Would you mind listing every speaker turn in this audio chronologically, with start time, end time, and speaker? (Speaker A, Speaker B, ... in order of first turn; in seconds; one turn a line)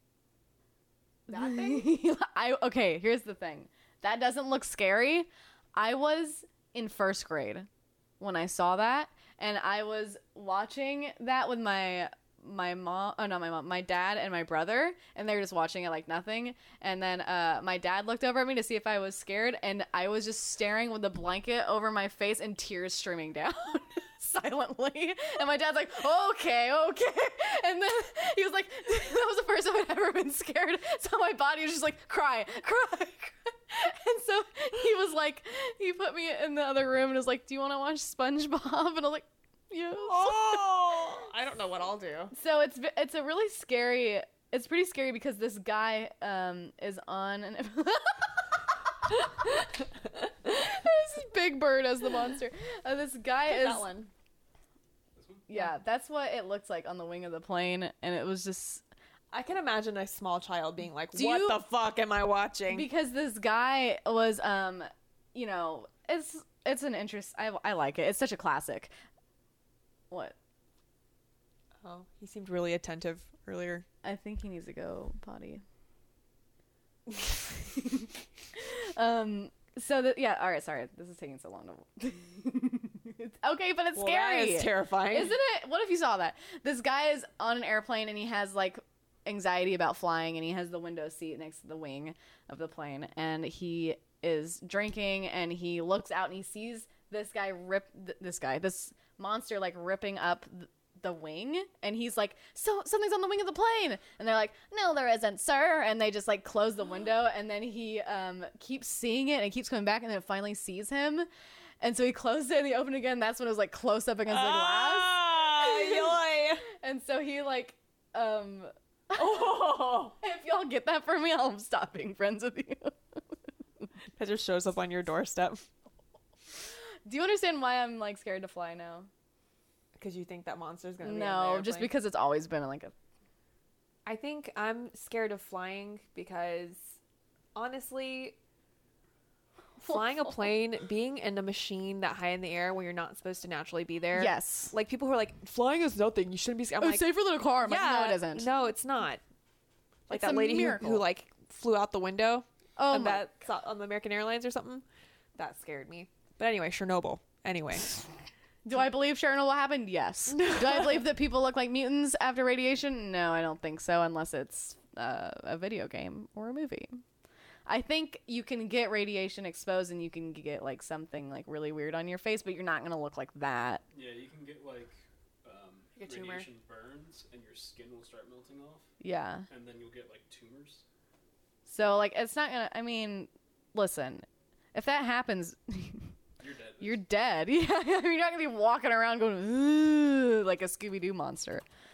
Speaker A: 1.3-1.9
Speaker B: 1.3-7.7
Speaker B: 8.2-40.7
Speaker A: 40.0-42.3
Speaker B: 42.3-49.1
Speaker B: 50.4-54.0
Speaker A: 53.4-54.1
Speaker C: 55.1-55.5
Speaker B: 55.5-58.8
Speaker A: 59.3-62.9
Speaker B: 61.1-61.6
Speaker B: 62.7-68.9
Speaker B: 70.1-70.3
Speaker A: 71.8-73.8
Speaker B: 74.0-75.6
Speaker B: 77.1-111.3
Speaker A: 83.9-85.3
Speaker B: 111.8-123.2
Speaker A: 114.3-116.6
Speaker A: 119.2-120.1
Speaker A: 124.2-125.7
Speaker B: 127.0-129.1
Speaker A: 130.0-131.9
Speaker B: 131.0-132.9
Speaker A: 134.1-137.0
Speaker A: 137.5-138.4
Speaker B: 139.8-140.3
Speaker A: 139.8-147.1
Speaker B: 144.1-144.7
Speaker B: 146.8-148.5
Speaker A: 147.6-149.2
Speaker A: 150.1-154.8
Speaker B: 150.1-151.0
Speaker B: 152.8-153.3
Speaker A: 155.3-157.9
Speaker B: 158.6-167.0
Speaker A: 160.3-161.0
Speaker B: 167.7-173.8
Speaker C: 173.9-178.9
Speaker A: 175.9-176.5
Speaker B: 179.0-179.5
Speaker C: 179.5-180.8
Speaker B: 181.7-186.1
Speaker C: 186.4-187.0
Speaker B: 186.8-191.6